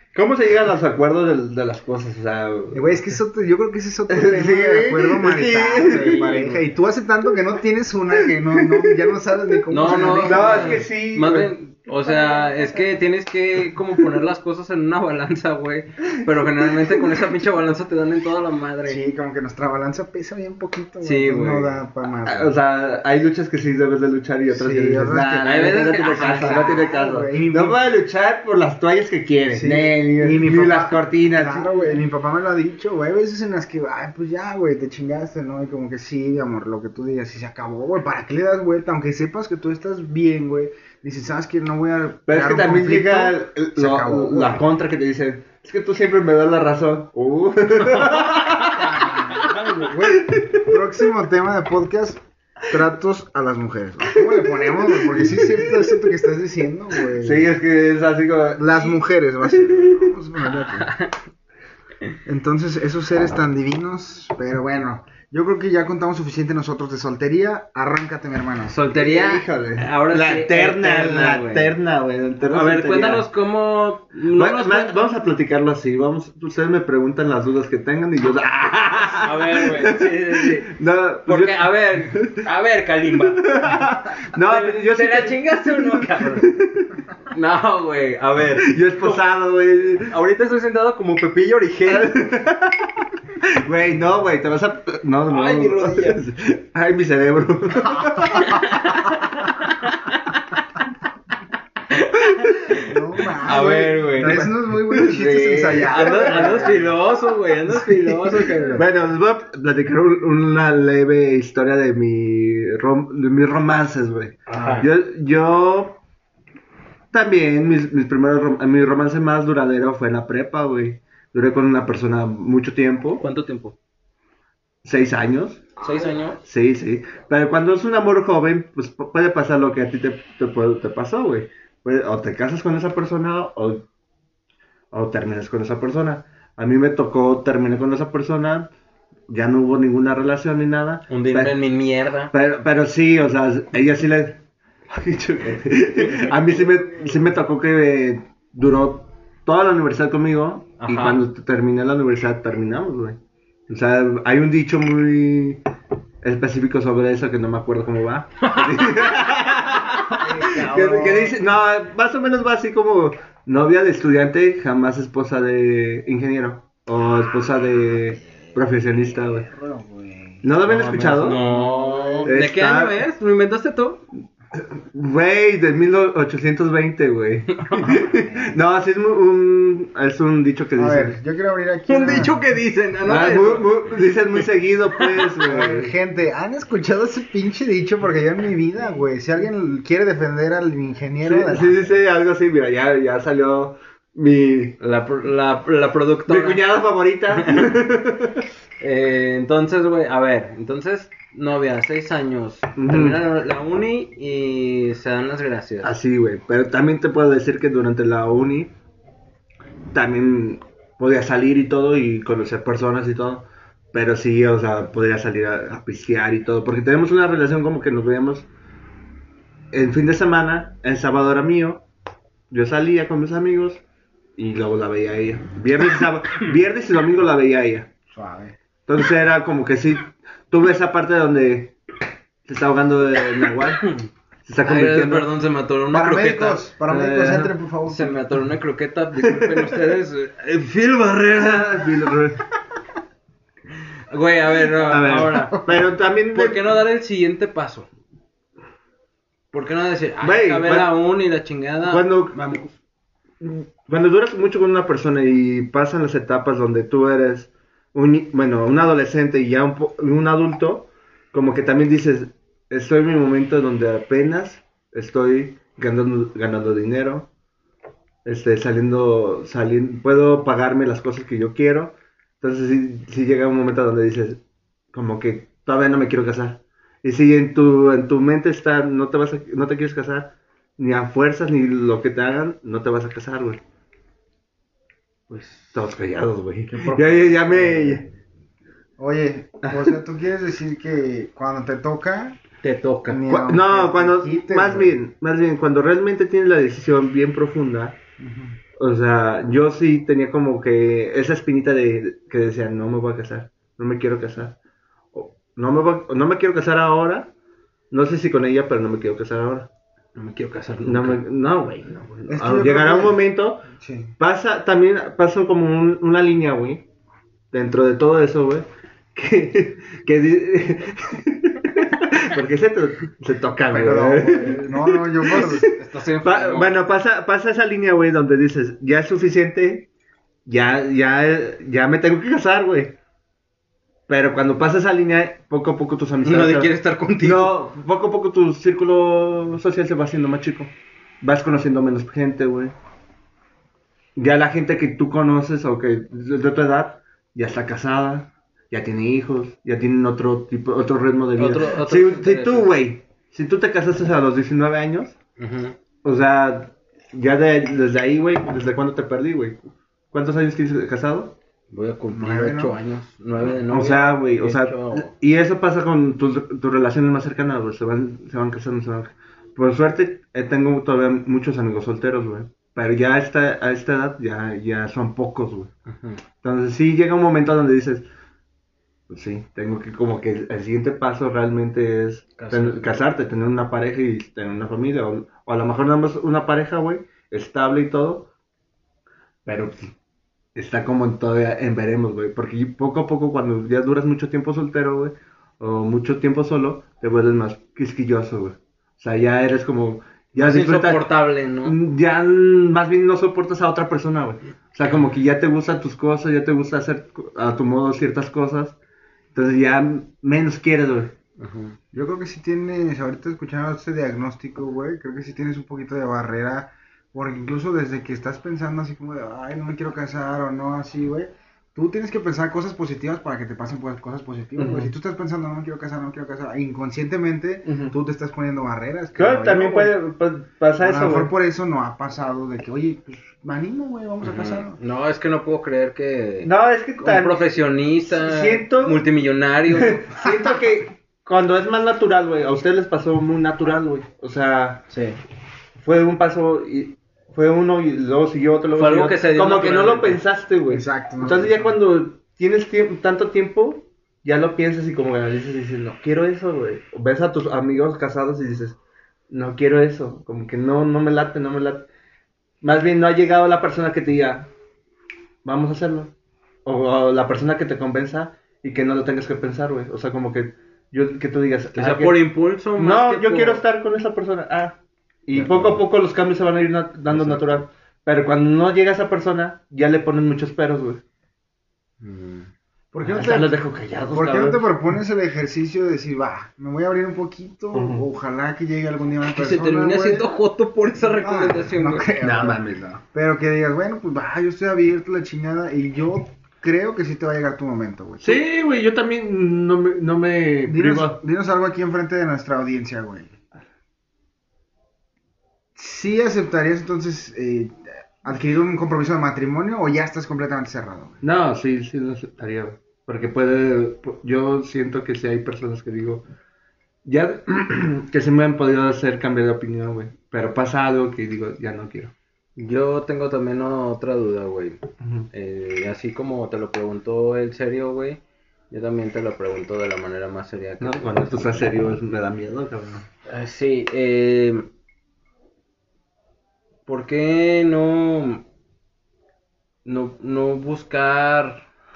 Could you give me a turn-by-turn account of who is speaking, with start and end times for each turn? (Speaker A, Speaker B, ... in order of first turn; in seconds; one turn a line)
Speaker A: 0.1-3.0
Speaker B: 2.7-10.9
Speaker A: 4.1-6.3
Speaker C: 5.8-6.6
Speaker A: 8.2-11.5
Speaker C: 9.7-19.0
Speaker A: 12.1-12.4
Speaker A: 16.6-17.0
Speaker B: 18.8-22.6
Speaker C: 21.0-21.7
Speaker A: 22.2-31.9
Speaker B: 24.5-27.8
Speaker C: 25.4-26.8
Speaker B: 29.5-44.6
Speaker A: 42.3-49.3
Speaker C: 47.9-50.0
Speaker B: 48.8-57.5
Speaker A: 50.0-50.8
Speaker A: 54.9-56.0
Speaker A: 57.2-60.1
Speaker B: 58.5-60.9
Speaker C: 60.5-61.1
Speaker B: 62.2-68.7
Speaker C: 68.7-71.8
Speaker A: 68.9-73.3
Speaker C: 72.4-75.0
Speaker A: 74.3-82.4
Speaker C: 79.1-80.7
Speaker C: 81.2-83.8
Speaker A: 83.4-87.0
Speaker C: 84.3-86.5
Speaker C: 87.3-89.2
Speaker A: 88.6-90.1
Speaker C: 90.0-92.1
Speaker A: 91.9-98.7
Speaker C: 95.3-96.2
Speaker C: 98.3-100.4
Speaker C: 101.9-104.5
Speaker B: 102.8-106.9
Speaker A: 103.5-106.9
Speaker C: 105.9-108.8
Speaker B: 107.7-108.9
Speaker A: 108.7-116.0
Speaker C: 114.5-114.9
Speaker B: 114.5-114.9
Speaker A: 117.1-123.2
Speaker C: 123.2-123.8
Speaker A: 124.8-133.8
Speaker C: 125.8-126.4
Speaker A: 134.9-138.7
Speaker A: 139.3-141.5
Speaker C: 141.1-142.3
Speaker A: 142.3-155.6
Speaker C: 150.8-151.2
Speaker A: 156.2-169.5
Speaker C: 158.4-159.4
Speaker C: 159.9-161.3
Speaker B: 160.2-161.3
Speaker B: 168.3-168.6
Speaker B: 169.4-170.4
Speaker A: 170.4-171.4
Speaker C: 170.6-174.0
Speaker B: 171.3-172.3
Speaker A: 172.2-173.0
Speaker A: 174.5-181.2
Speaker C: 177.6-177.9
Speaker B: 178.0-178.6
Speaker B: 180.8-182.3
Speaker C: 181.9-183.7
Speaker A: 183.0-185.9
Speaker C: 185.0-185.3
Speaker B: 185.4-192.0
Speaker A: 191.2-194.8
Speaker C: 194.8-196.6
Speaker A: 196.3-198.4
Speaker C: 197.3-197.7
Speaker C: 198.8-205.9
Speaker A: 202.8-203.2
Speaker A: 205.8-208.7
Speaker A: 209.9-218.5
Speaker A: 219.7-221.8
Speaker A: 222.5-223.8
Speaker A: 224.4-227.9
Speaker B: 228.1-228.5
Speaker A: 228.9-231.8
Speaker A: 232.4-233.9
Speaker A: 234.4-235.3
Speaker C: 234.6-236.7
Speaker B: 235.9-238.2
Speaker A: 236.9-237.5
Speaker C: 237.8-241.7
Speaker A: 239.2-239.8
Speaker A: 241.2-242.4
Speaker C: 244.1-245.7
Speaker A: 244.8-246.6
Speaker C: 246.3-247.9
Speaker C: 249.5-252.7
Speaker A: 250.2-250.9
Speaker A: 251.8-252.5
Speaker A: 253.4-267.3
Speaker A: 268.2-274.4
Speaker A: 274.9-283.6
Speaker C: 285.3-285.7
Speaker A: 285.7-288.1
Speaker B: 286.8-288.0
Speaker B: 289.0-292.4
Speaker C: 292.6-293.2
Speaker B: 293.1-295.0
Speaker A: 293.2-298.0
Speaker B: 298.2-298.6
Speaker A: 298.8-304.6
Speaker A: 305.1-307.3
Speaker A: 307.9-309.7
Speaker C: 310.1-311.2
Speaker A: 310.8-313.7
Speaker B: 312.3-313.2
Speaker B: 313.7-314.1
Speaker A: 314.2-316.9
Speaker A: 317.5-329.9
Speaker B: 323.7-325.7
Speaker C: 325.5-326.7
Speaker A: 330.4-332.9
Speaker A: 334.1-342.7
Speaker C: 336.2-337.5
Speaker A: 344.1-355.1
Speaker C: 351.4-352.7
Speaker C: 355.4-355.8
Speaker A: 356.0-361.4
Speaker C: 361.7-365.1
Speaker B: 362.1-362.8
Speaker A: 363.4-375.7
Speaker C: 375.9-376.2
Speaker A: 376.4-378.1
Speaker A: 379.1-388.3
Speaker C: 382.4-383.0
Speaker A: 389.4-389.9
Speaker A: 390.5-408.8
Speaker C: 400.4-401.8
Speaker A: 409.3-411.1
Speaker C: 411.4-411.8
Speaker B: 411.9-429.9
Speaker A: 424.6-424.9
Speaker A: 427.6-427.9
Speaker A: 429.2-431.3
Speaker B: 430.8-434.8
Speaker C: 434.2-440.3
Speaker A: 436.4-437.5
Speaker A: 438.0-439.0
Speaker A: 439.8-444.8
Speaker C: 444.9-445.2
Speaker A: 445.8-458.8
Speaker C: 448.8-450.2
Speaker B: 450.7-451.8
Speaker A: 459.3-461.9
Speaker A: 462.6-464.5
Speaker A: 465.4-466.1
Speaker A: 466.6-481.0
Speaker C: 471.7-473.6
Speaker C: 475.3-475.8
Speaker C: 477.1-477.4
Speaker C: 482.0-482.5
Speaker B: 482.9-483.6
Speaker A: 483.0-484.8
Speaker B: 484.1-490.3
Speaker A: 487.7-488.1
Speaker C: 489.3-492.1
Speaker B: 491.2-492.6
Speaker A: 492.2-493.0
Speaker B: 493.1-498.4
Speaker A: 498.2-501.2
Speaker B: 500.7-503.3
Speaker B: 505.8-511.2
Speaker A: 511.2-516.2
Speaker A: 517.0-522.1
Speaker C: 522.6-524.8
Speaker A: 525.0-525.3
Speaker C: 525.3-531.6
Speaker A: 530.8-533.0
Speaker C: 533.2-534.6
Speaker C: 536.9-538.4
Speaker C: 539.8-541.6